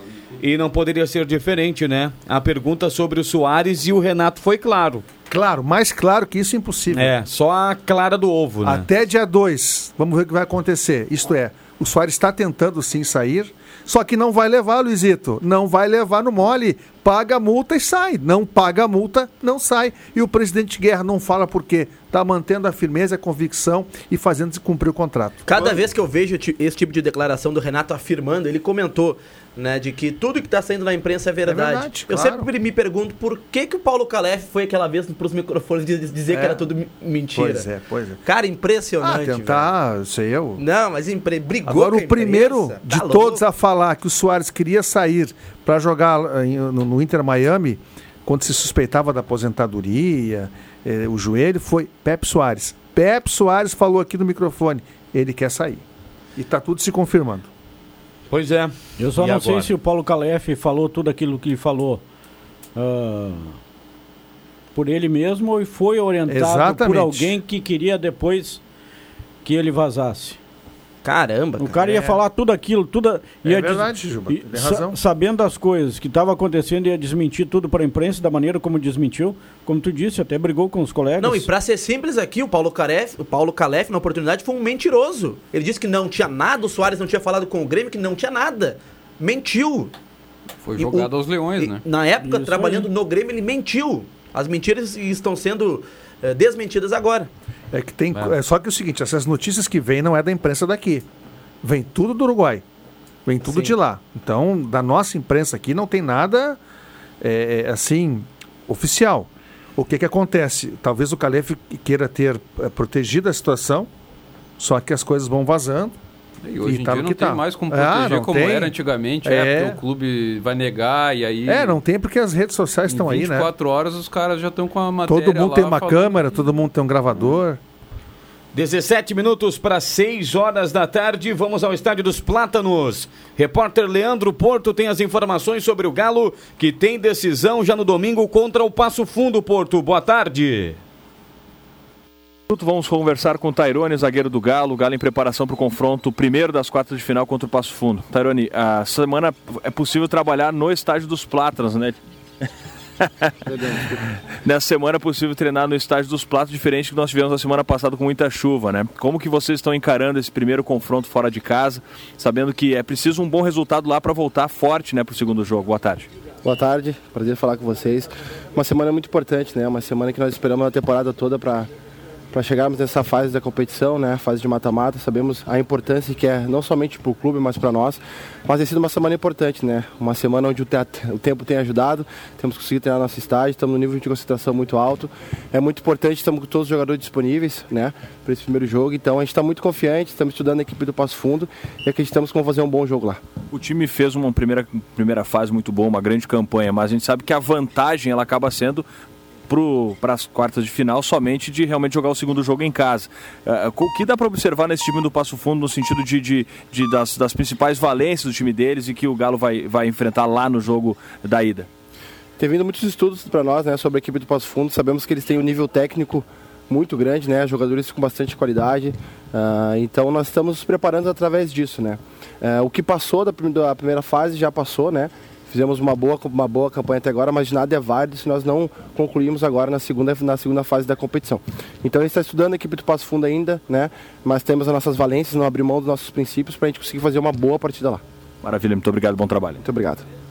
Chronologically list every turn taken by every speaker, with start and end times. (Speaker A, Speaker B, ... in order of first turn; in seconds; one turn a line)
Speaker A: 0.4-5.0
Speaker B: 5.3-7.1
Speaker A: 6.9-8.8
Speaker B: 8.6-25.8
Speaker C: 25.4-37.7
Speaker B: 31.4-32.5
Speaker B: 36.3-36.6
Speaker B: 37.3-38.2
Speaker C: 38.2-39.7
Speaker B: 39.0-40.6
Speaker C: 40.6-43.4
Speaker B: 41.6-55.8
Speaker B: 56.4-57.5
Speaker A: 58.3-59.7
Speaker D: 59.0-62.0
Speaker D: 62.8-63.6
Speaker D: 64.7-68.6
Speaker B: 66.3-67.4
Speaker D: 69.4-70.4
Speaker C: 71.0-71.8
Speaker D: 71.6-81.5
Speaker B: 71.8-72.2
Speaker B: 73.4-75.0
Speaker C: 81.2-89.9
Speaker E: 90.6-91.8
Speaker C: 90.8-97.3
Speaker D: 92.2-92.9
Speaker B: 97.7-101.1
Speaker B: 101.6-102.6
Speaker B: 103.2-106.6
Speaker C: 103.4-103.7
Speaker B: 107.2-113.9
Speaker B: 114.6-116.0
Speaker E: 116.4-121.8
Speaker B: 116.6-119.8
Speaker B: 121.5-123.5
Speaker E: 122.9-126.2
Speaker B: 125.0-127.6
Speaker A: 128.5-140.8
Speaker F: 142.5-152.0
Speaker F: 153.0-153.3
Speaker G: 153.5-154.0
Speaker F: 154.4-166.1
Speaker G: 166.4-171.7
Speaker G: 172.3-193.2
Speaker F: 193.5-198.8
Speaker F: 199.5-211.7
Speaker G: 212.4-238.0
Speaker F: 238.4-239.6
Speaker G: 239.6-240.0